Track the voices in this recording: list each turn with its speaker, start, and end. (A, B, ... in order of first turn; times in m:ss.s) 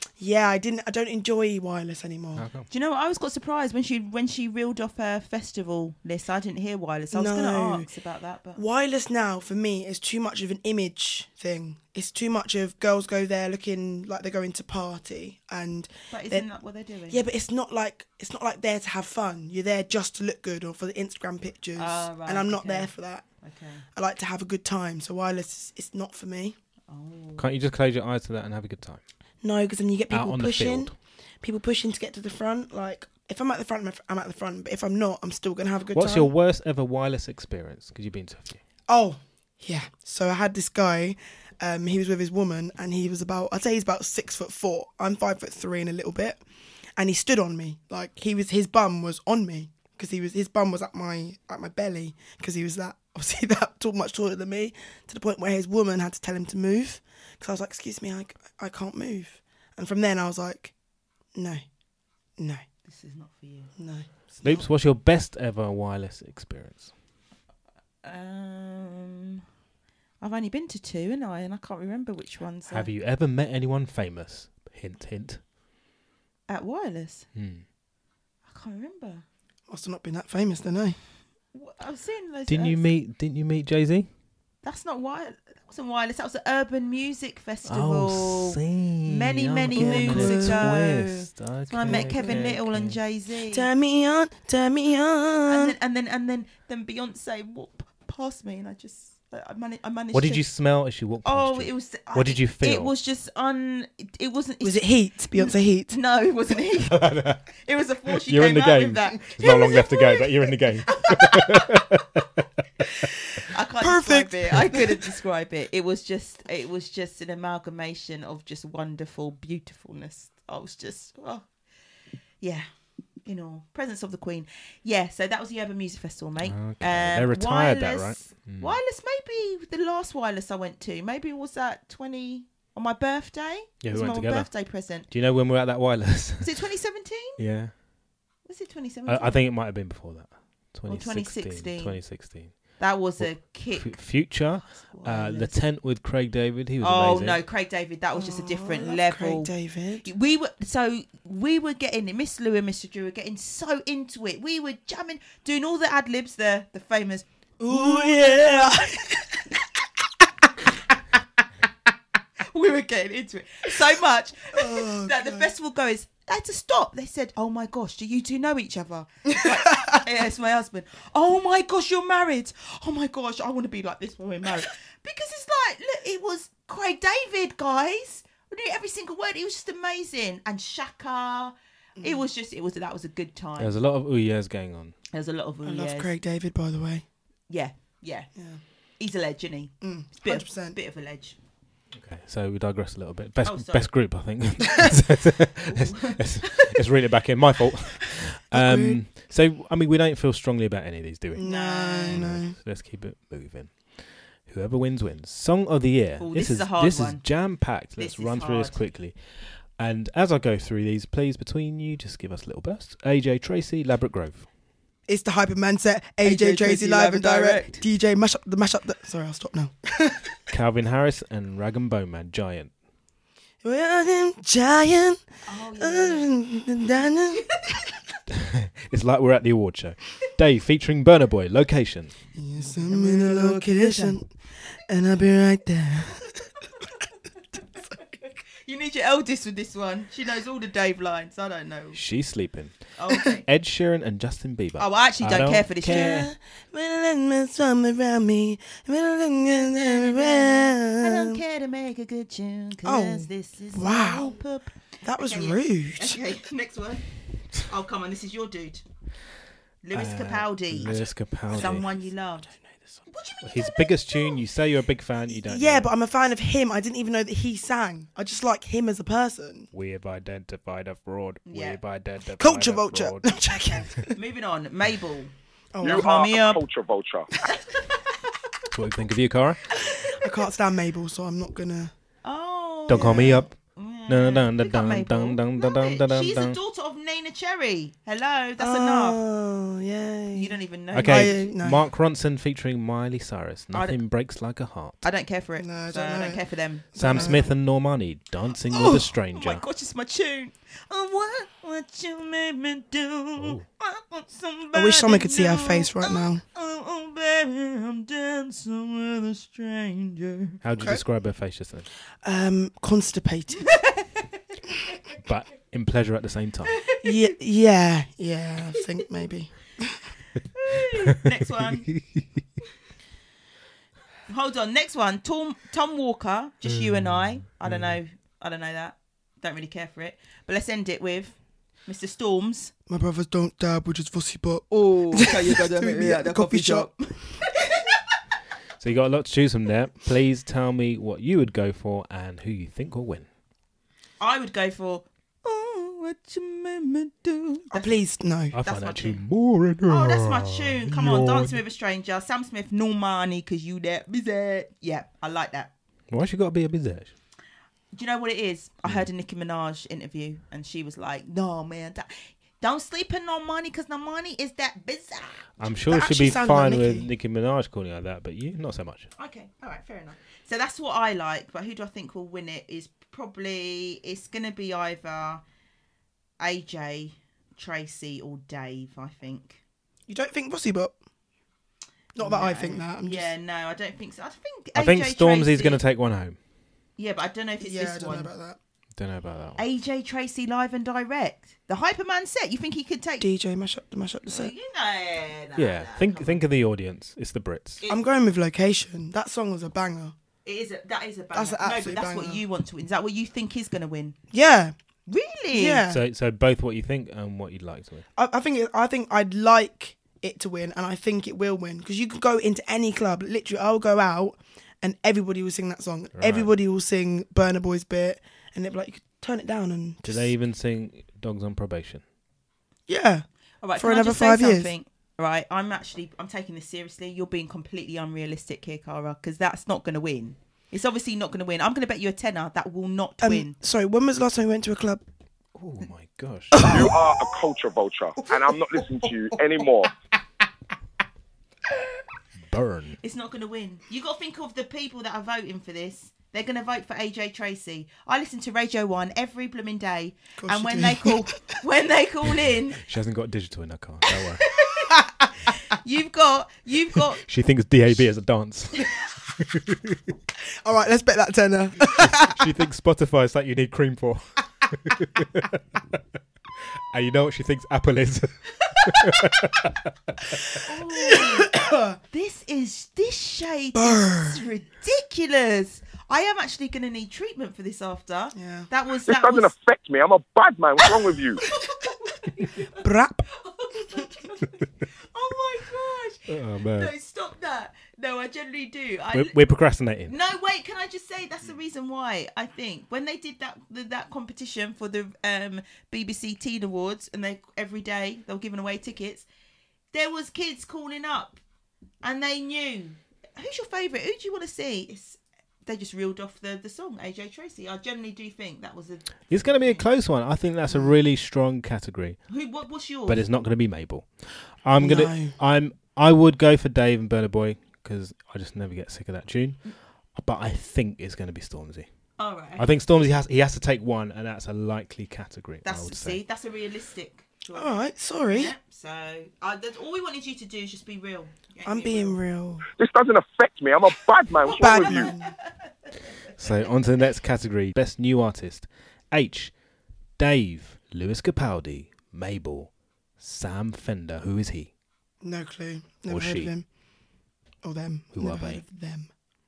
0:00.2-0:02.5 A
0:02.4-0:02.7 B
0:02.7-0:08.6 C
0:07.1-0:07.9 A
0:08.6-0:16.5 A
0:16.1-0:17.2 C
0:17.1-0:23.2 A
0:21.8-0:23.8 C
0:23.9-0:26.5 A
0:26.9-0:27.5 C
0:27.4-0:29.0 B
0:29.4-0:36.3 A
0:30.1-0:30.9 B
0:35.9-0:38.6 B
0:38.9-0:46.4 A
0:47.0-1:00.7 A
1:01.3-1:01.6 A
1:02.4-1:02.6 A
1:02.8-1:03.7 C
1:03.8-1:04.7 A
1:04.4-1:06.9 B
1:08.0-1:09.4 C
1:10.2-1:12.9 C
1:12.7-1:15.4 B
1:16.5-1:17.3 C
1:17.3-1:17.6 B
1:18.4-1:19.2 C
1:19.7-1:21.0 A
1:21.5-1:22.9 C
1:22.5-1:24.1 B
1:24.6-1:33.7 C
1:27.6-1:33.0 B
1:29.7-1:30.8 A
1:31.8-1:32.5 A
1:33.5-1:35.7 A
1:35.5-1:40.4 C
1:40.1-1:42.9 B
1:41.2-1:51.7 C
1:44.6-1:45.9 A
1:46.8-1:47.5 B
1:48.1-1:52.2 B
1:53.5-2:01.5 C
1:53.8-1:54.8 A
2:02.4-2:02.7 C
2:03.2-2:15.1 C
2:06.4-2:08.8 B
2:13.8-2:16.5 B
2:16.4-2:17.4 C
2:17.4-2:17.7 B
2:18.4-2:19.4 C
2:19.1-2:27.4 B
2:20.9-2:22.2 C
2:22.7-2:25.5 C
2:26.8-2:29.5 C
2:28.1-2:30.1 A
2:30.0-2:39.0 C
2:37.6-2:39.4 A
2:42.5-3:03.7 C
2:44.5-2:45.5 A
3:02.0-3:02.2 A
3:03.6-3:04.9 B
3:05.1-3:06.1 C
3:05.6-3:07.0 A
3:07.5-3:08.3 C
3:08.4-3:08.6 A
3:09.0-3:11.4 C
3:09.8-3:10.8 A
3:11.9-3:21.4 B
3:13.4-3:13.9 C
3:15.7-3:16.7 C
3:18.5-3:19.0 A
3:21.4-3:22.6 A
3:21.4-3:22.2 C
3:22.1-3:34.5 B
3:26.2-3:27.2 C
3:27.9-3:28.8 C
3:35.1-3:40.3 A
3:36.2-3:37.8 C
3:40.5-3:42.7 B
3:43.6-3:45.2 A
3:45.4-3:46.3 C
3:45.8-3:47.8 A
3:48.3-3:52.1 B
3:52.4-3:56.5 A
3:52.6-3:54.2 C
3:58.0-4:02.0 C
4:01.9-4:06.3 B
4:03.0-4:03.4 C
4:04.8-4:06.2 C
4:05.9-4:11.4 A
4:09.4-4:18.8 C
4:12.8-4:14.4 A
4:15.0-4:16.2 A
4:19.8-4:22.5 C
4:19.9-4:21.9 B
4:23.1-4:24.4 C
4:23.4-4:25.9 B
4:25.3-4:29.7 A
4:29.7-4:33.4 B
4:31.4-4:31.8 C
4:32.4-4:34.1 A
4:34.0-4:35.3 C
4:35.7-4:36.2 A
4:35.8-4:37.3 D
4:35.8-4:36.6 C
4:38.7-4:39.6 B
4:40.0-4:41.9 A
4:42.2-4:49.2 C
4:42.9-4:46.6 B
4:42.9-4:43.4 A
4:48.6-4:51.8 A
4:50.3-4:51.4 C
4:50.9-4:55.0 B
4:53.7-4:54.0 C
4:55.0-4:57.4 C
4:55.6-4:57.4 A
4:57.0-4:59.6 B
4:58.7-5:10.6 C
5:03.4-5:03.6 B
5:04.7-5:06.4 A
5:10.6-5:11.9 B
5:12.2-5:13.7 A
5:13.7-5:14.3 C
5:15.2-5:16.7 B
5:16.7-5:17.3 C
5:17.0-5:20.1 A
5:20.4-5:21.9 C
5:24.3-5:32.7 C
5:26.7-5:27.9 B
5:32.9-5:37.5 A
5:34.7-5:37.8 C
5:38.8-5:43.3 B
5:44.2-5:47.9 C
5:47.7-5:48.6 A
5:48.5-5:51.6 B
5:48.6-5:49.2 C
5:49.9-5:55.7 C
5:56.1-5:57.1 B
5:57.9-6:05.5 C
6:05.6-6:09.1 B
6:05.9-6:07.1 A
6:09.2-6:15.4 C
6:16.4-6:19.6 C
6:20.1-6:20.9 A
6:22.2-6:23.3 A
6:22.2-6:25.8 C
6:24.8-6:26.4 B
6:27.0-6:28.3 C
6:27.6-6:28.6 A
6:29.0-6:29.6 B
6:29.6-6:33.2 C
6:33.2-6:34.5 A
6:34.2-6:36.4 C
6:35.6-6:37.8 B
6:37.9-6:40.1 A
6:40.4-6:44.2 C
6:41.3-6:42.4 A
6:44.3-6:44.7 A
6:45.0-6:45.8 C
6:45.5-6:46.0 A
6:45.9-6:48.0 B
6:48.2-7:00.3 A
6:56.2-6:56.5 B
7:00.0-7:02.0 B
7:02.9-7:03.2 A
7:03.6-7:13.6 C
7:03.8-7:04.7 A
7:13.2-7:15.0 A
7:15.5-7:16.7 B
7:16.5-7:17.0 A
7:16.6-7:19.9 D
7:18.2-7:19.4 A
7:22.4-7:23.0 B
7:23.0-7:32.8 C
7:30.4-7:31.5 A
7:32.8-7:34.4 B
7:34.4-7:34.9 C
7:35.5-7:37.2 C
7:37.2-7:40.0 B
7:40.6-7:42.4 A
7:41.8-7:46.0 B
7:46.7-7:50.6 B
7:50.6-7:51.6 C
7:51.0-7:52.0 A
7:52.1-7:59.5 C
7:53.7-7:54.4 A
7:58.3-7:58.7 A
7:59.0-8:01.4 D
8:01.4-8:09.4 C
8:02.8-8:03.2 A
8:06.3-8:06.9 B
8:09.1-8:10.1 B
8:10.1-8:19.2 C
8:19.9-8:21.4 C
8:22.0-8:29.9 C
8:29.3-8:32.2 B
8:32.3-8:33.2 C
8:33.0-8:39.6 B
8:34.8-8:35.4 A
8:40.1-8:41.9 B
8:42.2-8:42.7 C
8:42.6-8:46.2 B
8:45.6-8:52.2 C
8:47.5-8:48.5 A
8:51.6-8:52.6 A
8:52.8-8:55.1 D
8:54.5-8:55.5 C
8:54.6-8:55.3 A
8:56.4-8:59.5 B
9:00.2-9:04.7 B
9:05.2-9:06.6 A
9:06.1-9:06.5 B
9:07.6-9:09.1 A
9:08.1-9:08.6 B